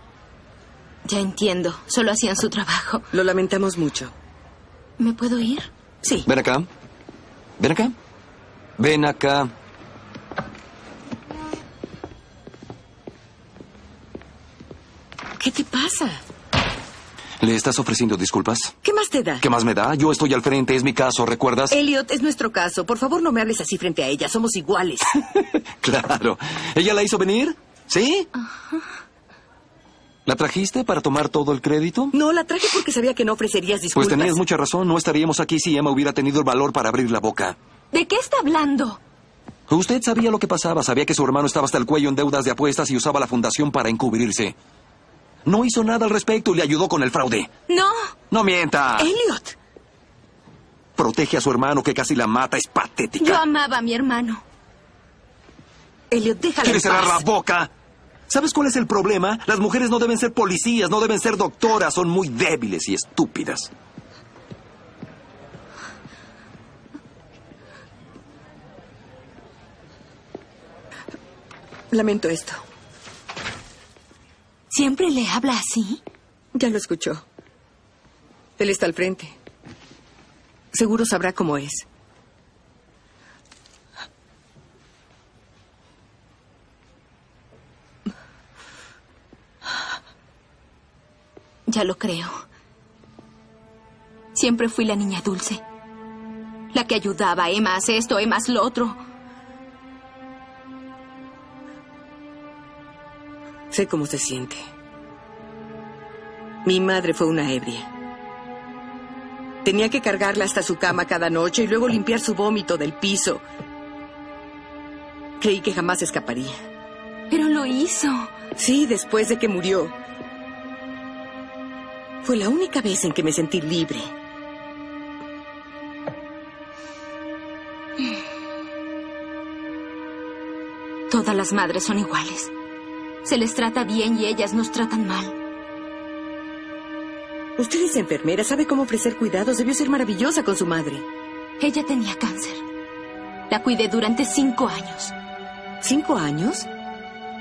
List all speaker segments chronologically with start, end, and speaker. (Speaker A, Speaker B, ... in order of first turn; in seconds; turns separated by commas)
Speaker A: 1.0-3.1, Speaker B: 3.1-4.1, Speaker A: 5.0-5.7, Speaker C: 6.2-6.7, Speaker C: 7.6-7.9, Speaker C: 8.8-9.5, Speaker B: 15.4-16.2, Speaker C: 17.4-18.8, Speaker B: 18.8-19.4, Speaker C: 19.4-21.7, Speaker B: 21.7-25.1, Speaker C: 25.8-28.3, Speaker C: 30.2-32.1, Speaker B: 32.1-34.4, Speaker C: 33.9-37.6, Speaker A: 37.9-39.0, Speaker C: 39.7-44.6, Speaker C: 45.4-47.5, Speaker A: 47.7-48.1, Speaker C: 48.3-49.1, Speaker B: 49.0-49.5, Speaker C: 51.0-53.4, Speaker A: 53.2-54.4, Speaker B: 56.1-57.2, Speaker C: 56.6-57.7, Speaker C: 58.3-63.7, Speaker B: 71.9-72.6, Speaker A: 74.7-76.0, Speaker B: 76.5-77.2, Speaker B: 78.6-79.3, Speaker B: 80.7-81.8, Speaker A: 91.7-92.4, Speaker A: 94.3-95.6, Speaker A: 96.7-99.0, Speaker B: 103.7-104.7, Speaker B: 106.6-107.9, Speaker B: 109.6-113.4, Speaker B: 115.4-116.6, Speaker A: 117.3-118.3, Speaker B: 118.6-119.9, Speaker B: 122.2-124.1, Speaker A: 131.1-132.5, Speaker A: 133.2-135.3, Speaker B: 137.6-141.0, Speaker A: 141.6-142.6, Speaker A: 143.5-145.1, Speaker B: 145.8-146.7